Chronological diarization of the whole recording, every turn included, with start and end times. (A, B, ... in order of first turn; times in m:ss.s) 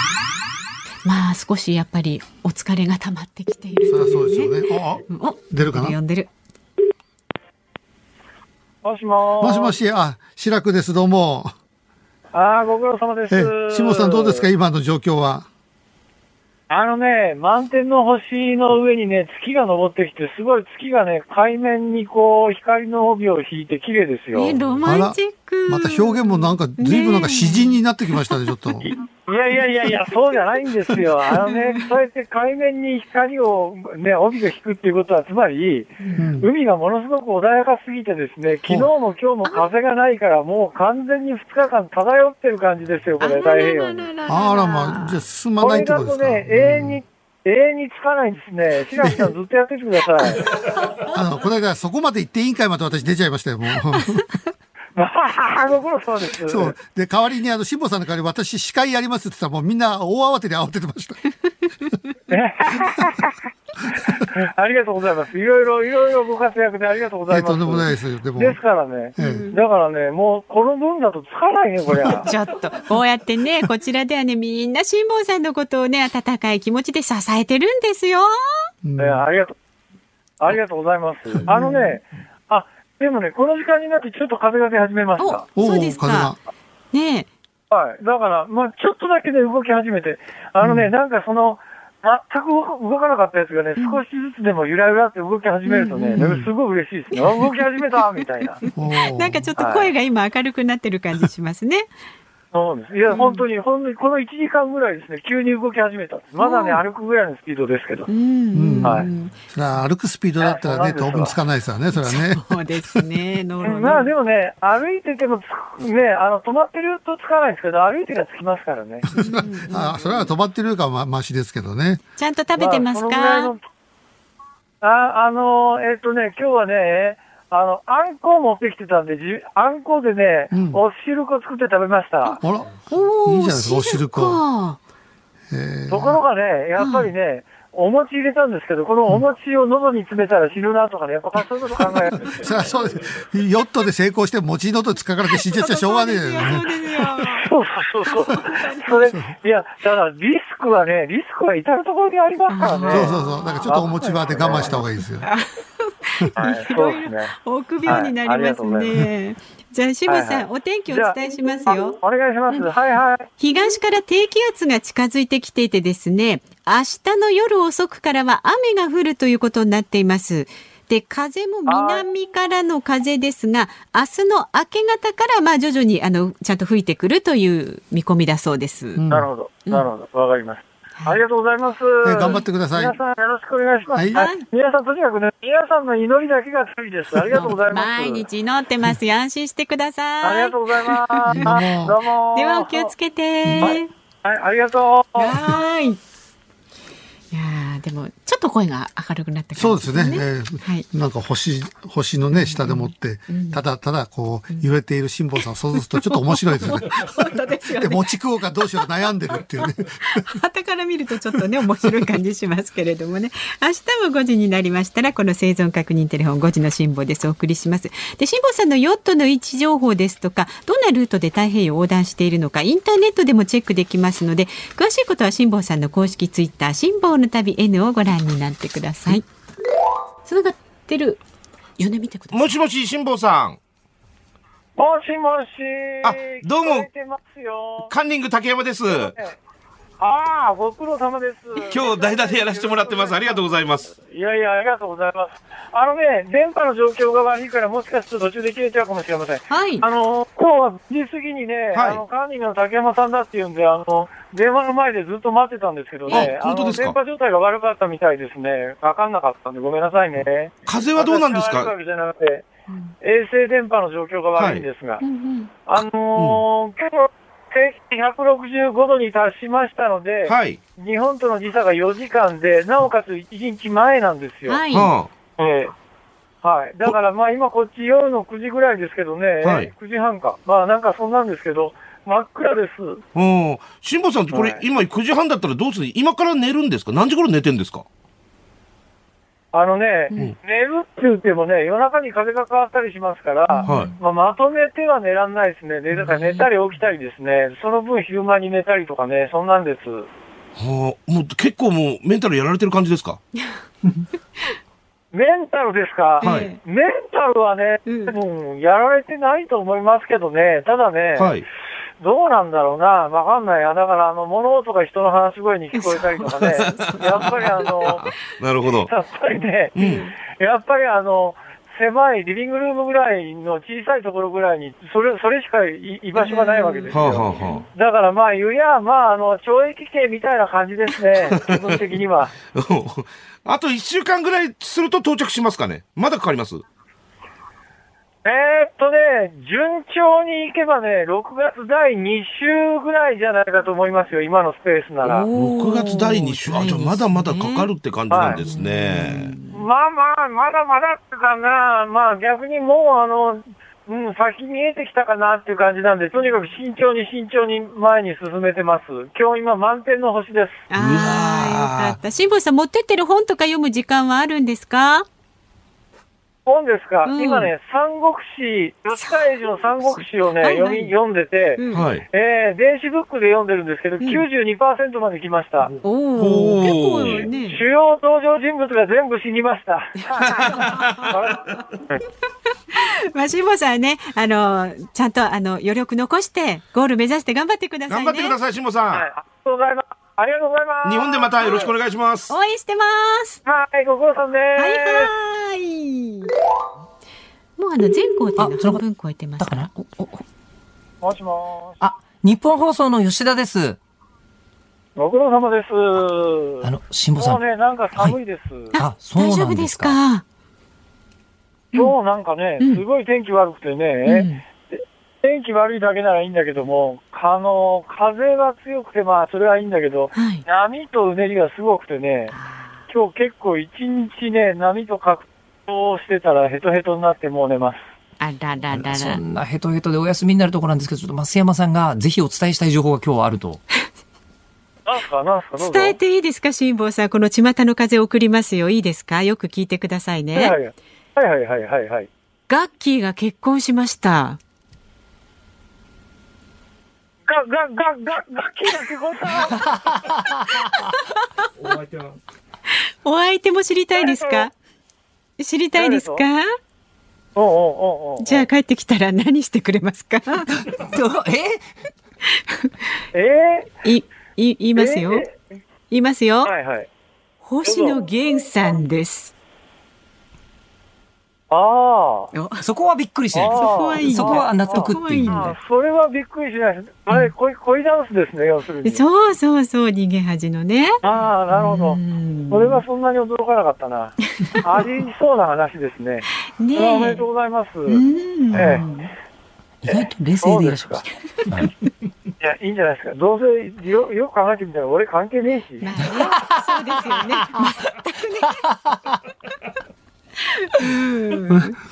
0:01.0-0:06.3 A
0:03.8-0:06.0 B
0:08.8-0:09.8 C
0:09.4-0:11.5 B
0:12.3-0:14.5 C
0:13.3-0:15.5 B
0:16.7-0:24.6 C
0:24.3-0:28.4 A
0:24.8-0:28.9 B
0:28.9-0:44.1 C
0:31.4-0:31.9 A
0:36.0-0:36.3 A
0:36.2-0:36.5 B
0:43.2-0:45.2 A
0:44.3-0:47.0 B
0:45.6-0:50.4 C
0:49.0-0:49.3 B
0:50.2-0:54.2 B
0:50.7-0:51.2 A
0:55.0-0:56.7 C
0:56.5-1:01.2 B
1:02.3-1:03.3 C
1:04.1-1:12.3 C
1:07.3-1:08.6 B
1:09.2-1:09.5 B
1:09.2-1:09.6 A
1:12.2-1:18.7 A
1:18.8-1:19.2 B
1:19.0-1:19.5 C
1:20.4-1:25.4 C
1:21.4-1:21.8 B
1:25.2-1:26.4 A
1:25.6-1:26.4 B
1:26.9-1:27.3 A
1:27.7-1:38.7 C
1:30.6-1:30.9 B
1:33.8-1:34.0 A
1:35.7-1:36.3 A
1:36.2-1:36.5 B
1:37.1-1:37.6 A
1:38.6-1:41.9 A
1:38.7-1:39.5 B
1:39.6-1:39.9 C
1:42.5-1:48.1 C
1:43.1-1:43.4 A
1:46.4-1:46.8 A
1:48.1-1:49.4 A
1:48.5-1:53.0 B
1:50.4-1:51.4 C
1:52.0-1:54.1 A
1:53.6-1:59.0 C
1:59.0-2:02.0 B
1:59.1-2:00.0 A
2:02.2-2:03.5 A
2:02.6-2:03.6 C
2:04.8-2:12.4 C
2:10.5-2:10.8 B
2:12.2-2:14.8 A
2:12.4-2:14.4 B
2:15.5-2:16.2 B
2:15.9-2:22.7 C
2:16.8-2:17.1 A
2:22.3-2:26.7 B
2:25.4-2:27.5 A
2:27.2-2:34.8 C
2:28.1-2:29.1 A
2:32.5-2:33.2 A
2:32.9-2:35.3 B
2:35.2-2:42.0 A
2:36.4-2:37.3 C
2:37.8-2:39.0 C
2:40.1-2:43.3 C
2:43.4-2:59.0 A
2:51.7-2:52.1 C
2:59.0-2:59.3 B
2:59.1-3:08.3 C
3:02.0-3:03.0 B
3:03.9-3:04.3 B
3:04.1-3:04.4 A
3:07.3-3:11.7 A
3:10.2-3:12.9 C
3:11.3-3:12.0 B
3:12.3-3:13.9 A
3:13.4-3:13.8 B
3:13.6-3:15.3 C
3:15.2-3:16.0 A
3:17.3-3:20.9 A
3:19.6-3:27.0 B
3:22.3-3:23.6 A
3:25.8-3:28.1 A
3:27.7-3:30.2 B
3:28.6-3:49.2 A
3:50.2-3:51.2 A
3:51.8-3:52.5 A
3:52.3-3:53.6 D
3:54.8-3:57.9 C
3:56.0-3:56.9 D
3:57.8-3:59.2 D
3:58.9-3:59.4 C
4:00.0-4:22.5 C
4:01.7-4:03.9 D
4:09.5-4:09.9 A
4:11.8-4:12.0 D
4:16.1-4:16.3 A
4:16.1-4:17.0 D
4:20.7-4:21.7 D
4:23.0-4:25.0 C
4:24.4-4:24.6 D
4:25.0-4:25.5 A
4:25.7-4:34.6 C
4:26.2-4:26.4 D
4:30.3-4:30.6 D
4:34.4-4:34.9 A
4:34.7-4:35.1 D
4:35.4-4:35.7 C
4:36.4-4:43.0 C
4:39.4-4:39.7 D
4:43.2-4:47.9 D
4:44.3-4:44.6 C
4:49.5-5:00.1 C
4:53.5-4:53.9 A
4:53.6-4:54.0 D
4:55.9-4:56.5 A
5:00.6-5:03.2 D
5:05.1-5:11.4 C
5:06.2-5:06.5 D
5:06.2-5:06.6 A
5:07.9-5:08.2 A
5:11.2-5:11.4 D
5:12.0-5:18.1 C
5:15.7-5:17.4 A
5:16.4-5:18.9 D
5:18.8-5:32.3 C
5:19.8-5:20.1 D
5:19.8-5:20.2 A
5:26.2-5:27.7 A
5:26.9-5:27.6 D
5:31.3-5:31.7 D
5:32.4-5:36.6 D
5:38.2-5:45.3 C
5:45.0-5:47.7 A
5:45.3-5:49.4 D
5:48.1-5:48.4 C
5:48.3-5:49.6 A
5:49.5-6:00.7 C
6:00.7-6:05.1 A
6:00.8-6:02.0 D
6:06.5-6:15.8 C
6:07.1-6:07.5 A
6:09.0-6:10.9 A
6:11.6-6:11.9 A
6:11.7-6:12.0 D
6:14.0-6:14.2 A
6:15.8-6:17.6 A
6:16.2-6:17.3 D
6:17.3-6:22.0 C
6:20.3-6:21.1 D
6:20.6-6:20.9 A
6:22.7-6:28.4 A
6:27.9-6:29.1 D
6:28.9-6:31.7 C
6:30.8-6:32.3 D
6:31.4-6:31.7 A
6:32.3-6:33.4 A
6:33.4-6:35.1 C
6:34.6-6:36.3 A
6:37.6-6:39.9 A
6:38.4-6:38.8 E
6:39.4-6:40.2 E
6:41.0-6:41.8 C
6:41.8-6:43.8 E
6:45.0-6:48.7 C
6:46.6-6:47.4 E
6:48.7-6:50.2 A
6:48.8-6:50.0 E
6:51.7-7:02.3 C
6:54.1-6:54.4 A
7:00.1-7:00.4 A
7:02.3-7:02.8 A
7:02.9-7:07.8 C
7:08.2-7:09.2 A
7:08.7-7:13.6 E
7:14.9-7:16.0 C
7:15.6-7:20.6 A
7:20.3-7:22.1 C
7:22.5-7:24.4 A
7:27.3-7:29.7 C
7:33.0-7:34.5 A
7:34.0-7:34.4 C
7:35.4-7:36.5 A
7:35.8-7:36.2 C
7:37.4-7:38.5 C
7:38.2-7:41.1 A
7:40.8-7:41.6 E
7:42.4-7:42.7 A
7:43.1-7:43.8 C
7:43.8-7:45.3 A
7:44.8-7:45.5 C
7:45.9-7:46.5 A
7:46.5-7:46.9 C
7:47.4-7:49.3 A
7:47.6-7:48.0 C
7:51.5-7:52.3 C
7:52.3-7:52.7 A
7:52.6-7:55.5 E
7:53.3-7:59.0 C
7:53.5-7:55.5 A
7:58.8-8:02.8 A
8:01.0-8:08.0 C
8:06.6-8:07.2 A
8:07.9-8:09.1 A
8:08.5-8:08.9 C
8:09.8-8:11.0 E
8:10.4-8:11.0 C
8:12.4-8:15.9 C
8:15.8-8:18.6 A
8:16.3-8:17.6 E
8:18.7-8:19.0 E
8:20.6-8:21.7 A